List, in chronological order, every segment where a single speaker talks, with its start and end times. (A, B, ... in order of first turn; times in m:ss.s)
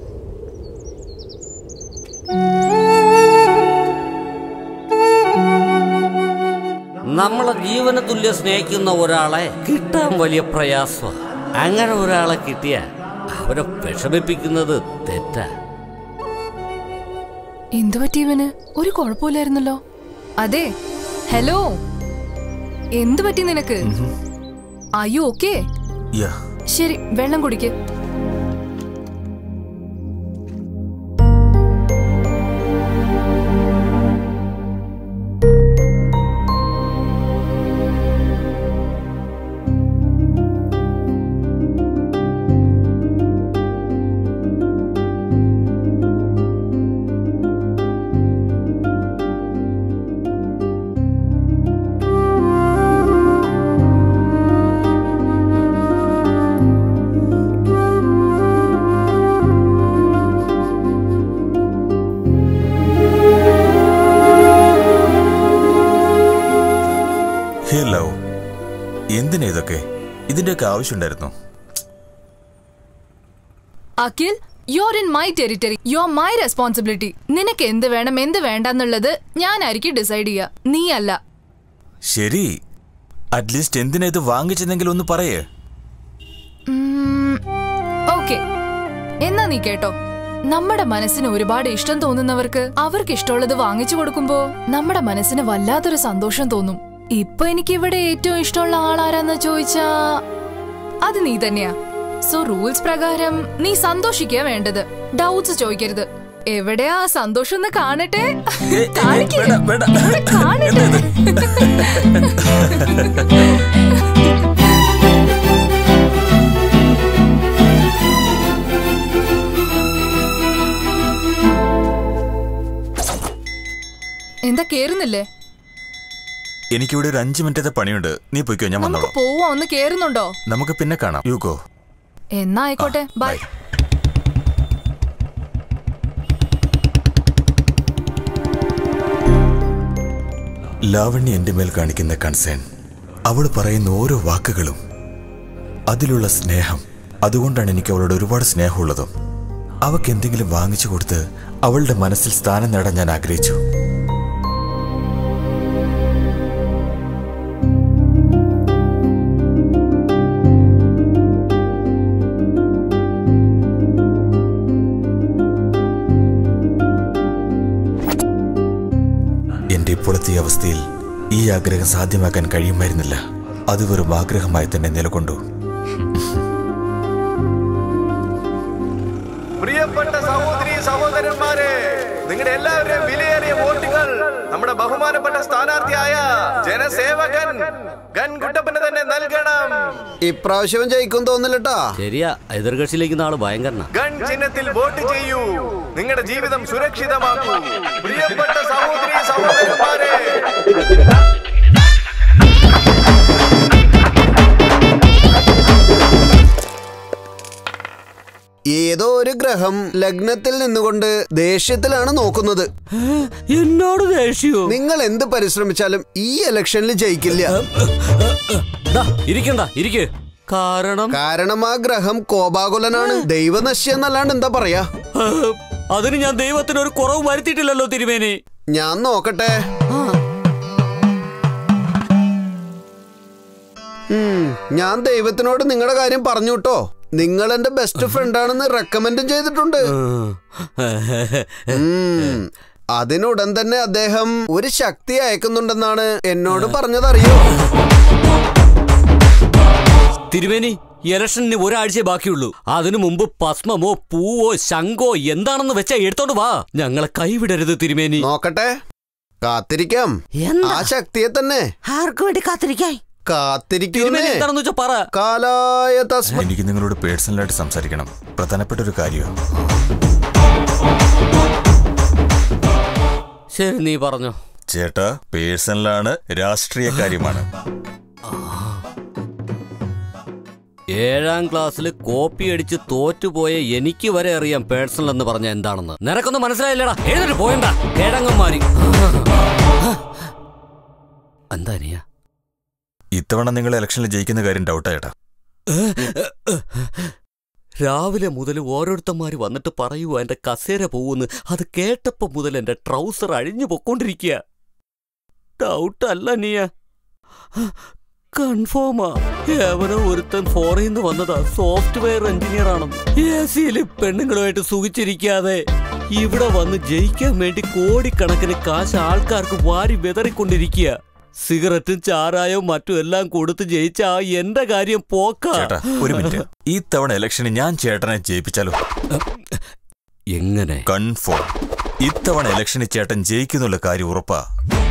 0:07.1-0:12.8 A
0:13.3-0:15.5 A
0:17.8-0:19.8 B
0:20.4-0:20.7 B
0:21.3-0:21.6 B
0:23.0-0:23.8 B
0:23.8-0:24.1 C
0:25.0-0:25.5 B
0:26.7-0:27.7 B
1:07.7-1:08.1 C
1:09.1-1:11.3 C
1:14.0-1:21.2 B
1:22.1-1:22.5 C
1:23.4-1:25.4 C
1:26.7-1:27.4 B
1:28.1-1:28.4 B
1:29.3-1:29.9 B
1:30.5-1:40.2 B
1:41.0-1:41.7 B
1:42.3-1:52.3 B
1:48.7-1:53.5 C
2:04.5-2:05.2 B
2:06.7-2:09.1 C
2:08.8-2:10.3 B
2:10.5-2:11.6 C
2:12.4-2:13.4 B
2:12.8-2:13.4 C
2:20.9-2:22.6 C
2:23.3-2:24.8 C
2:25.9-2:29.1 C
2:29.8-2:33.6 C
2:49.7-2:50.8 C
2:51.4-2:53.2 C
2:53.7-2:55.4 C
2:56.1-2:56.4 C
2:59.6-3:09.9 D
3:10.2-3:11.8 E
3:12.0-3:13.8 F
3:13.9-3:20.4 D
3:28.7-3:32.7 E
3:33.0-3:34.7 F
3:34.7-3:37.5 E
3:37.5-3:41.2 F
3:41.1-3:44.9 E
3:42.9-3:43.2 F
3:45.2-3:48.4 F
3:48.7-3:49.6 E
3:49.9-3:50.2 F
3:54.1-3:59.8 E
4:00.0-4:02.3 F
4:01.7-4:07.5 E
4:06.5-4:06.8 F
4:10.3-4:18.3 F
4:18.2-4:18.8 E
4:19.4-4:21.6 E
4:20.4-4:20.9 A
4:21.9-4:23.0 A
4:23.3-4:24.4 E
4:23.9-4:25.0 F
4:25.1-4:26.5 E
4:26.4-4:29.3 C
4:33.7-4:34.3 F
4:34.7-4:37.5 C
4:38.3-4:38.8 F
4:40.9-4:50.0 F
4:51.5-4:52.0 F
4:53.1-4:55.1 C
4:55.7-4:57.1 F
4:57.8-5:04.4 F
5:05.6-5:06.7 F
5:08.3-5:15.6 F
5:16.1-5:26.4 F
5:25.5-5:28.8 C
5:29.1-5:29.6 F
5:30.4-5:30.8 F
5:30.9-5:31.4 C
5:32.0-5:34.4 C